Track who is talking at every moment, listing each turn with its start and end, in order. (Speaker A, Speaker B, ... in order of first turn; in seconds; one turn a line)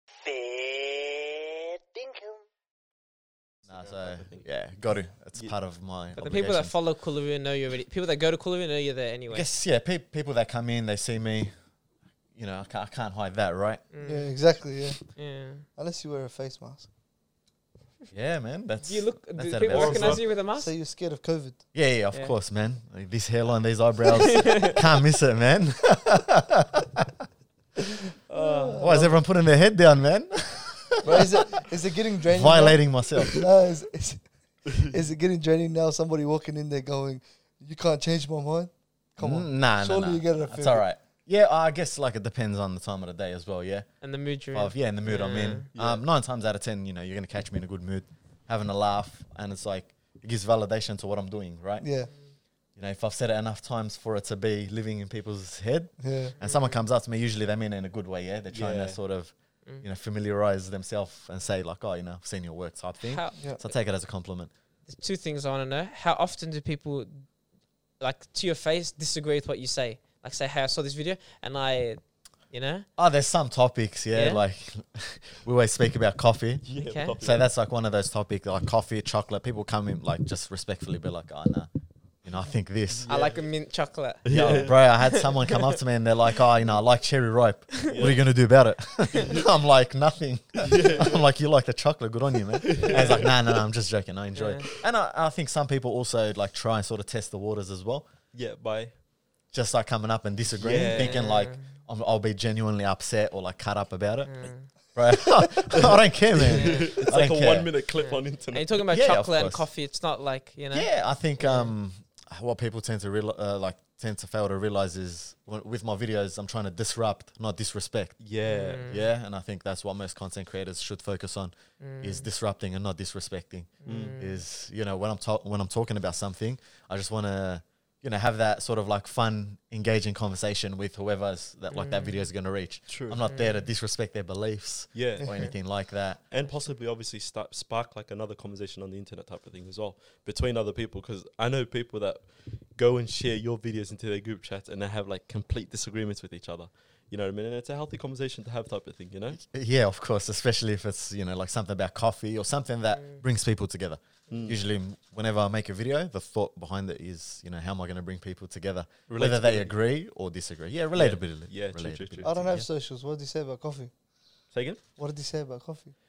Speaker A: 3.7-6.7
Speaker B: 3.7-4.5
Speaker C: 6.2-9.5
Speaker A: 9.3-11.6
Speaker A: 12.3-13.8
Speaker C: 13.9-14.5
Speaker D: 14.0-15.1
Speaker C: 15.0-15.7
Speaker D: 15.8-16.9
Speaker A: 18.1-20.2
Speaker C: 18.9-20.7
Speaker B: 19.7-20.2
Speaker D: 20.6-21.6
Speaker A: 21.7-27.1
Speaker C: 24.4-24.8
Speaker C: 28.3-28.9
Speaker D: 28.3-29.2
Speaker A: 28.8-31.3
Speaker D: 31.0-40.9
Speaker A: 32.3-33.4
Speaker A: 39.2-43.9
Speaker C: 44.0-45.7
Speaker A: 44.5-51.9
Speaker B: 45.7-46.0
Speaker D: 51.8-52.1
Speaker A: 52.8-64.5
Speaker D: 56.0-56.3
Speaker C: 56.4-56.8
Speaker B: 58.5-59.0
Speaker C: 63.1-63.4
Speaker C: 64.9-67.2
Speaker C: 68.0-72.9
Speaker A: 73.0-76.7
Speaker C: 74.1-74.4
Speaker B: 76.6-77.5
Speaker C: 76.8-77.2
Speaker A: 77.2-81.7
Speaker A: 82.2-83.1
Speaker B: 82.9-83.4
Speaker C: 83.1-85.7
Speaker B: 84.2-84.8
Speaker A: 84.3-98.1
Speaker B: 87.8-88.2
Speaker B: 89.1-89.5
Speaker B: 90.6-91.2
Speaker B: 92.6-93.4
Speaker C: 92.8-93.3
Speaker C: 94.3-94.7
Speaker B: 98.3-98.9
Speaker A: 99.5-104.3
Speaker B: 100.6-101.3
Speaker C: 100.9-101.6
Speaker C: 104.3-104.7
Speaker A: 104.9-107.7
Speaker B: 105.7-108.8
Speaker C: 106.5-107.0
Speaker C: 108.0-111.7
Speaker A: 108.9-109.7
Speaker A: 110.7-118.2
Speaker B: 118.2-118.9
Speaker C: 118.4-119.0
Speaker A: 118.8-136.2
Speaker C: 121.8-122.3
Speaker C: 123.8-124.4
Speaker B: 123.9-124.2
Speaker C: 131.7-132.3
Speaker B: 132.9-133.2
Speaker C: 133.3-133.7
Speaker B: 134.9-135.4
Speaker B: 136.3-149.4
Speaker A: 149.4-162.7
Speaker B: 154.3-154.6
Speaker B: 159.1-159.7
Speaker B: 160.9-162.5
Speaker D: 162.2-163.9
Speaker B: 164.5-164.8
Speaker D: 165.0-165.9